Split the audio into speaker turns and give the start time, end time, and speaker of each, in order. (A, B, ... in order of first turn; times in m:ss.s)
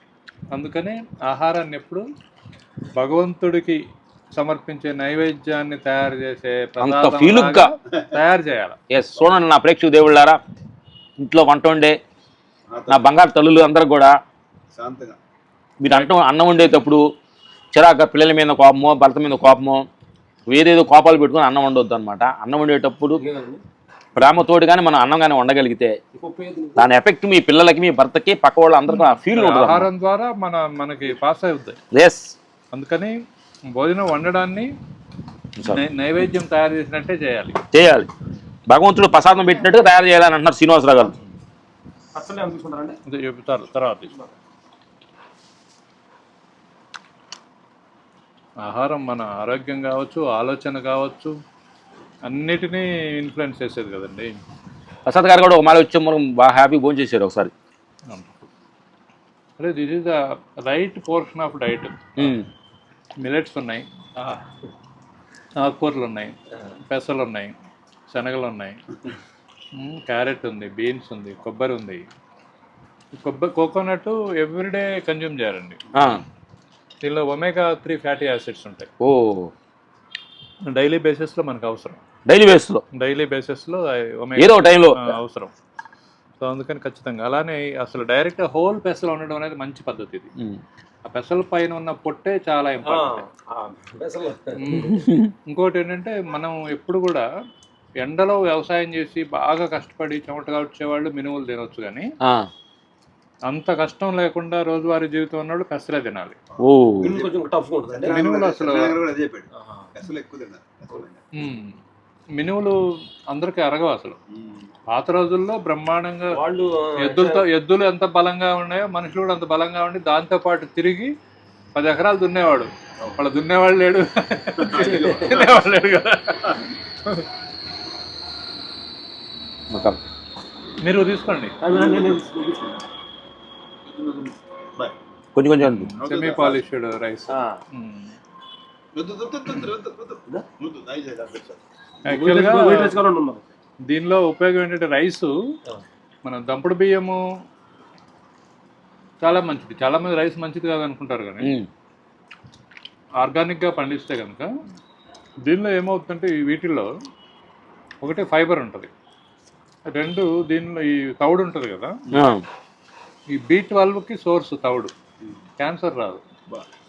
0:00.5-0:02.0 A
0:02.9-0:03.8 A
0:04.3-0:08.8 A
0:06.8-0:07.7 B
0:08.9-0:10.4 B
0:11.2-0:12.0 B
0:12.7-0:13.0 C
0:12.9-0:14.2 B
0:14.7-0:15.2 C
0:15.8-0:17.0 B
0:17.7-0:19.9 B
0:20.5-0:23.2 B
0:23.2-0:23.6 D
0:24.1-0:26.0 B
0:26.1-0:26.9 D
0:26.8-0:29.9 B
0:29.3-0:31.8 A
0:31.9-0:32.3 B
0:32.7-0:33.2 A
0:33.7-0:34.7 A
0:35.7-0:37.6 A
0:37.7-0:38.1 B
0:38.7-0:41.1 B
0:42.1-0:43.0 D
0:43.1-0:44.1 A
0:48.6-0:51.3 A
0:52.2-0:54.4 A
0:55.0-0:57.5 B
0:58.1-0:58.5 A
0:59.6-1:02.3 A
1:02.2-1:02.4 B
1:03.2-1:04.4 A
1:05.6-1:06.4 A
1:06.9-1:07.5 A
1:08.1-1:08.8 A
1:09.7-1:12.1 A
1:13.1-1:15.8 A
1:15.9-1:16.2 B
1:17.0-1:18.9 A
1:19.0-1:19.5 B
1:20.6-1:22.0 A
1:22.2-1:22.8 B
1:22.9-1:25.5 A
1:24.4-1:25.2 B
1:26.4-1:30.3 A
1:31.0-1:33.2 A
1:32.8-1:35.0 D
1:34.6-1:37.2 A
1:34.9-1:35.3 B
1:38.0-1:42.1 A
1:42.2-1:42.5 B
1:43.5-1:46.4 A
1:46.5-1:47.4 C
1:46.6-1:47.2 B
1:47.0-1:48.3 D
1:47.9-1:51.2 C
1:48.1-1:49.0 A
1:49.6-1:49.8 D
1:51.3-1:51.8 A
1:52.4-1:52.8 A
1:53.3-1:54.2 A
1:54.3-1:54.6 C
1:54.9-1:56.4 A
1:56.3-1:57.5 D
1:57.0-2:01.1 A
2:01.7-2:06.6 A
2:04.6-2:05.6 C
2:04.7-2:05.3 D
2:09.7-2:10.0 B
2:10.8-2:11.6 A
2:11.6-2:12.8 D
2:11.7-2:12.2 C
2:13.9-2:14.9 C
2:15.3-2:15.9 B
2:15.7-2:18.1 A
2:16.0-2:16.6 C
2:17.3-2:17.6 D
2:18.9-2:21.6 C
2:22.0-2:22.9 A
2:22.1-2:23.4 D
2:23.9-2:25.3 A
2:26.2-2:27.2 A
2:29.2-2:31.5 A
2:31.4-2:31.7 B
2:33.2-2:34.5 A
2:35.4-2:36.9 A
2:38.0-2:38.9 A
2:39.9-2:42.0 A
2:42.1-2:42.4 B
2:43.3-2:44.9 A
2:45.6-2:46.2 A